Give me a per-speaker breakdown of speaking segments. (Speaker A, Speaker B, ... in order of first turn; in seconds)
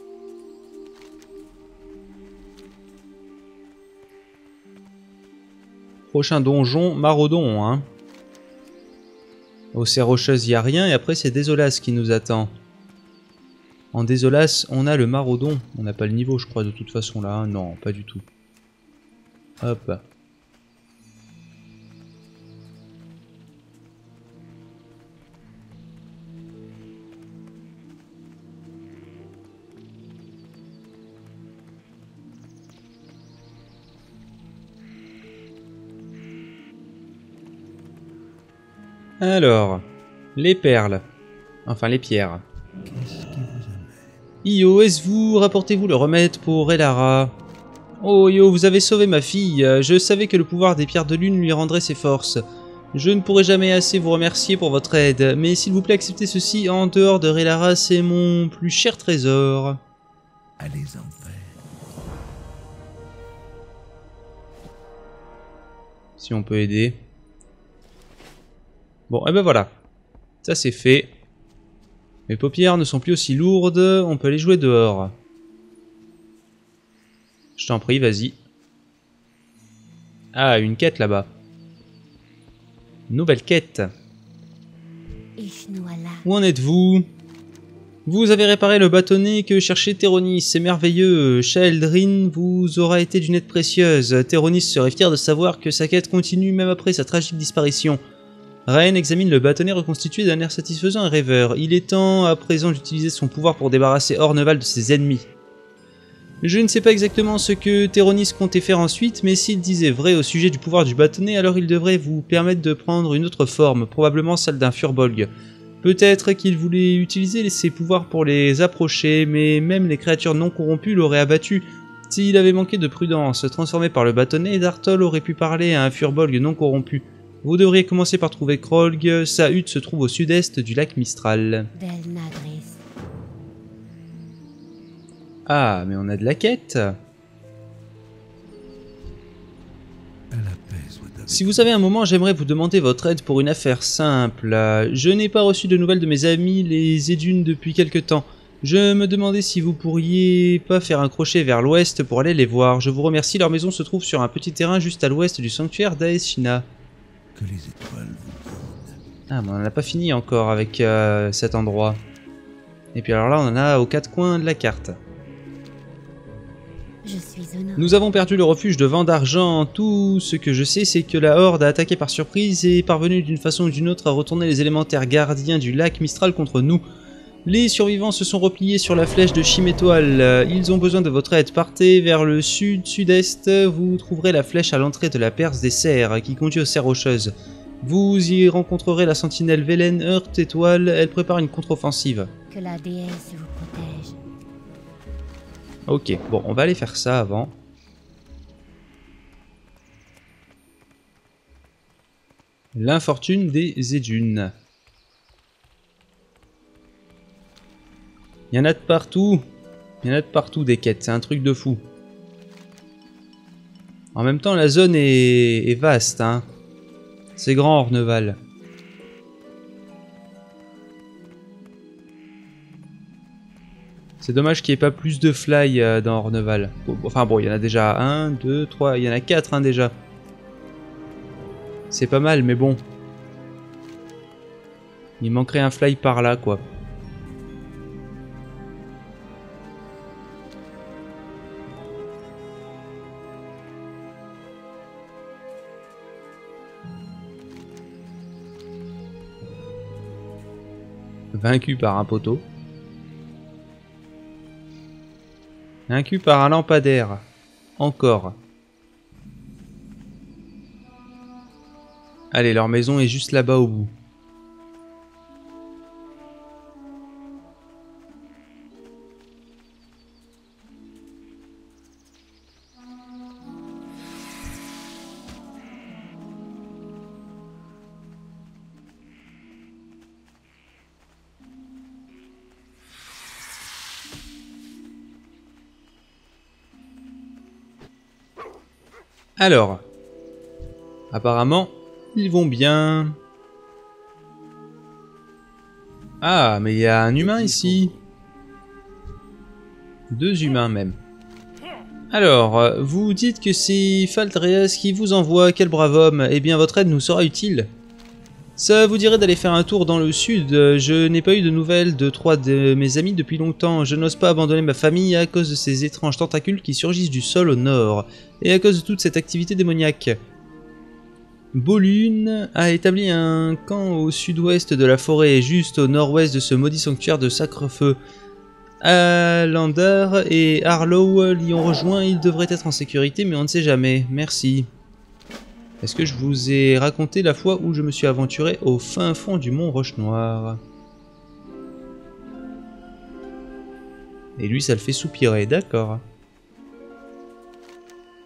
Speaker A: 6.1-7.9, 9.7-12.5, 13.9-18.2, 19.6-20.0, 39.2-39.8, 40.4-41.0, 41.6-42.4, 44.4-47.4, 48.0-52.4, 52.9-59.8, 66.2-67.0, 69.1-69.7, 70.4-71.1, 72.3-75.2, 77.6-78.4, 80.3-81.3, 83.1-83.9, 86.2-87.1, 88.1-98.0, 98.7-105.3, 106.4-115.3, 115.8-131.7, 135.5-136.9, 141.3-156.7, 159.3-162.0, 162.9-165.0, 167.8-176.8, 177.4-192.3, 195.9-197.6, 202.8-204.5, 208.5-209.4, 210.0-211.8, 214.1-216.4, 217.4-218.4, 224.2-229.9, 231.9-232.8, 235.2-236.6, 251.3-252.4, 255.9-257.3, 257.8-258.4, 262.3-263.9, 289.4-289.8, 291.1-293.2, 296.2-297.9, 300.1-300.9, 302.1-307.7, 308.6-320.2, 321.5-328.0, 328.8-334.7, 335.8-340.6, 344.4-346.0
Speaker B: 42.9-44.1, 60.6-61.6, 140.3-141.6, 157.3-159.0, 297.2-298.0
Speaker C: 85.4-86.3, 131.8-132.8, 167.0-167.9, 192.5-194.2